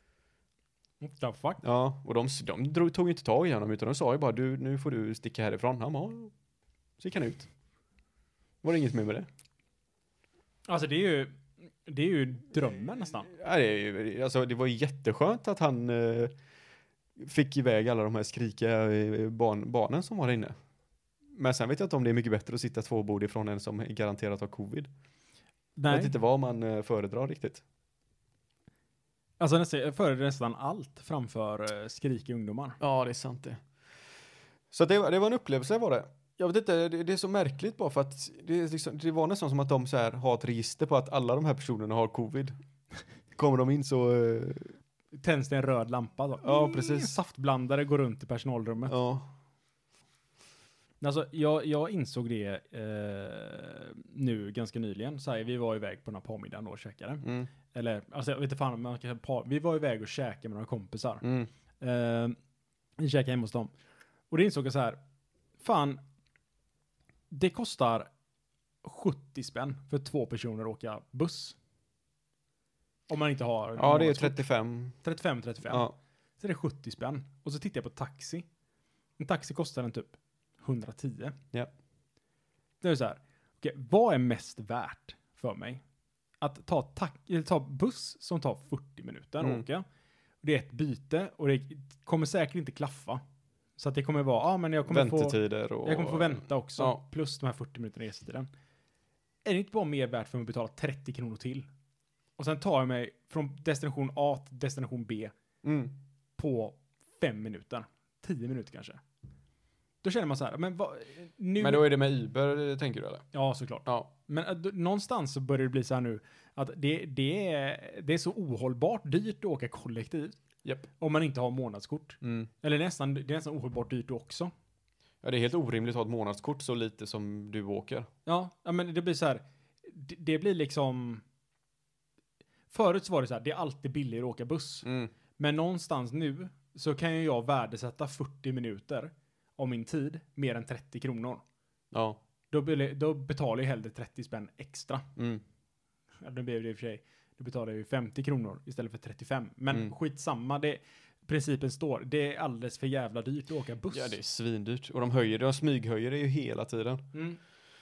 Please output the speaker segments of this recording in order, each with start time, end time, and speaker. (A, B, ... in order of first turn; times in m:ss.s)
0:01.0-0:01.6 A
0:01.6-0:06.3 B
0:07.0-0:07.5 B
0:08.6-0:09.3 B
0:10.7-0:13.3 A
0:13.3-0:16.3 B
0:17.2-0:20.5 B
0:21.3-0:24.9 B
0:25.8-0:26.1 A
0:25.9-0:27.6 B
0:29.4-0:32.8 A
0:32.8-0:33.6 B
0:34.7-0:42.6 B
0:43.4-0:44.8 B
0:45.2-0:48.9 A
0:46.4-0:47.1 B
0:48.9-0:49.3 B
0:51.0-1:01.2 A
0:57.2-0:57.5 B
1:01.2-1:01.5 B
1:01.8-1:02.4 A
1:03.0-1:03.7 A
1:04.3-1:05.0 A
1:05.6-1:06.0 A
1:07.3-1:08.1 A
1:08.8-1:11.6 A
1:13.1-1:14.4 A
1:13.8-1:15.0 B
1:15.0-1:15.9 A
1:15.6-1:16.0 B
1:16.4-1:18.4 A
1:19.2-1:21.4 A
1:22.8-1:25.8 A
1:26.4-1:29.8 A
1:30.4-1:33.2 A
1:33.8-1:38.5 A
1:34.9-1:37.0 B
1:39.4-1:41.7 A
1:42.4-1:45.3 A
1:45.6-1:45.9 B
1:46.4-1:49.0 A
1:50.0-1:51.9 A
1:51.6-1:53.3 B
1:53.3-2:00.4 A
1:53.8-1:54.1 B
2:01.0-2:04.5 A
2:02.2-2:02.5 B
2:05.2-2:08.1 B
2:08.2-2:11.2 A
2:12.7-2:14.9 A
2:14.8-2:15.1 B
2:15.4-2:21.4 A
2:21.9-2:22.2 B
2:22.5-2:25.1 A
2:25.2-2:25.4 B
2:26.2-2:34.2 A
2:33.9-2:37.1 B
2:37.1-2:37.4 A